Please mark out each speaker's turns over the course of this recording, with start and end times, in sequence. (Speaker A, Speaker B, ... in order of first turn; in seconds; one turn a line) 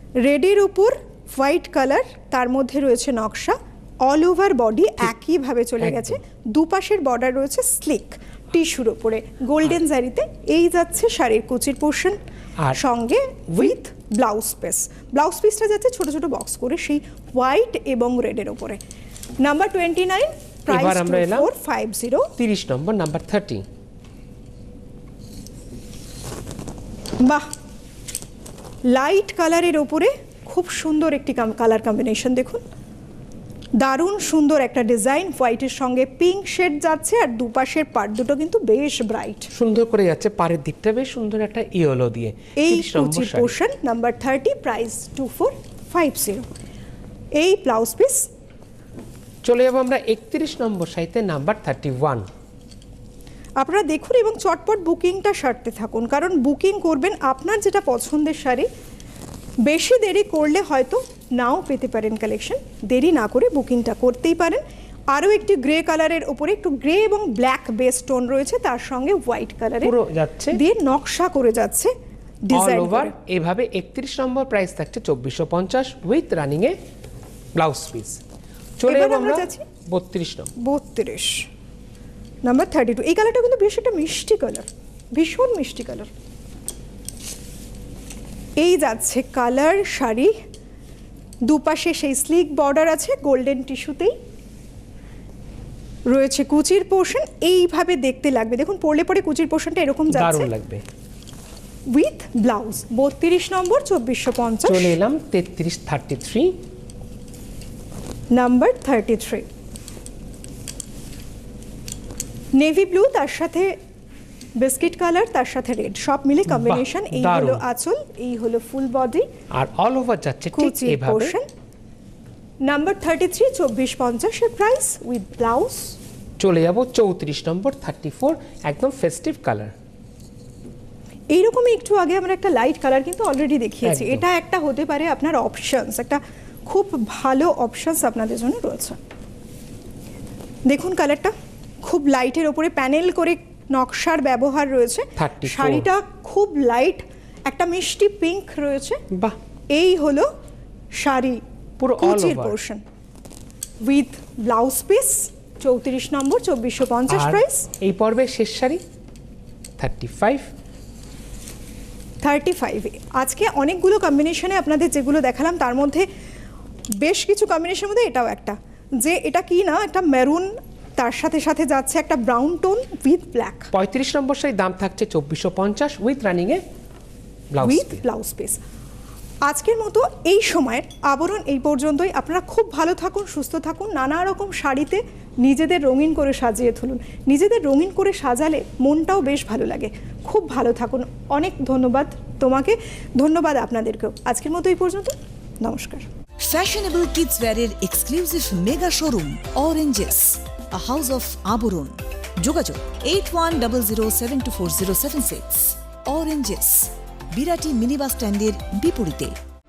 Speaker A: 0.2-12.2
Speaker B: 5.8-6.2
Speaker A: 12.7-18.8
Speaker A: 19.4-22.3
Speaker B: 20.7-21.5
Speaker B: 22.4-23.6
Speaker A: 27.2-27.5
Speaker A: 28.9-32.6
Speaker A: 33.8-39.5
Speaker B: 39.5-43.5
Speaker A: 42.6-46.5
Speaker A: 47.4-48.3
Speaker B: 49.4-52.2
Speaker A: 53.6-58.7
Speaker A: 59.6-69.9
Speaker B: 69.8-70.6
Speaker A: 70.5-71.9
Speaker A: 72.5-73.1
Speaker B: 72.5-76.8
Speaker B: 77.5-78.2
Speaker B: 78.8-80.5
Speaker A: 78.8-79.7
Speaker A: 80.6-81.5
Speaker A: 82.5-86.1
Speaker A: 88.6-90.3
Speaker A: 91.5-94.2
Speaker A: 96.1-100.5
Speaker B: 100.1-100.8
Speaker A: 101.9-105.0
Speaker B: 104.6-106.6
Speaker A: 108.3-109.5
Speaker A: 112.5-113.8
Speaker A: 114.6-119.3
Speaker B: 116.5-117.6
Speaker B: 119.5-121.3
Speaker A: 120.5-121.5
Speaker A: 122.6-126.0
Speaker B: 126.4-129.7
Speaker A: 131.3-139.0
Speaker B: 133.8-134.2
Speaker A: 140.7-149.0
Speaker B: 145.2-145.9
Speaker B: 149.1-149.4
Speaker A: 149.7-150.3
Speaker A: 150.9-151.4
Speaker B: 151.8-152.6
Speaker A: 152.0-152.8
Speaker A: 153.8-157.7
Speaker B: 157.1-158.8
Speaker B: 159.8-160.5
Speaker A: 162.2-166.1
Speaker A: 167.0-173.7
Speaker B: 173.7-176.6
Speaker B: 177.5-178.0
Speaker A: 177.6-178.6
Speaker A: 179.4-196.1
Speaker C: 196.4-209.3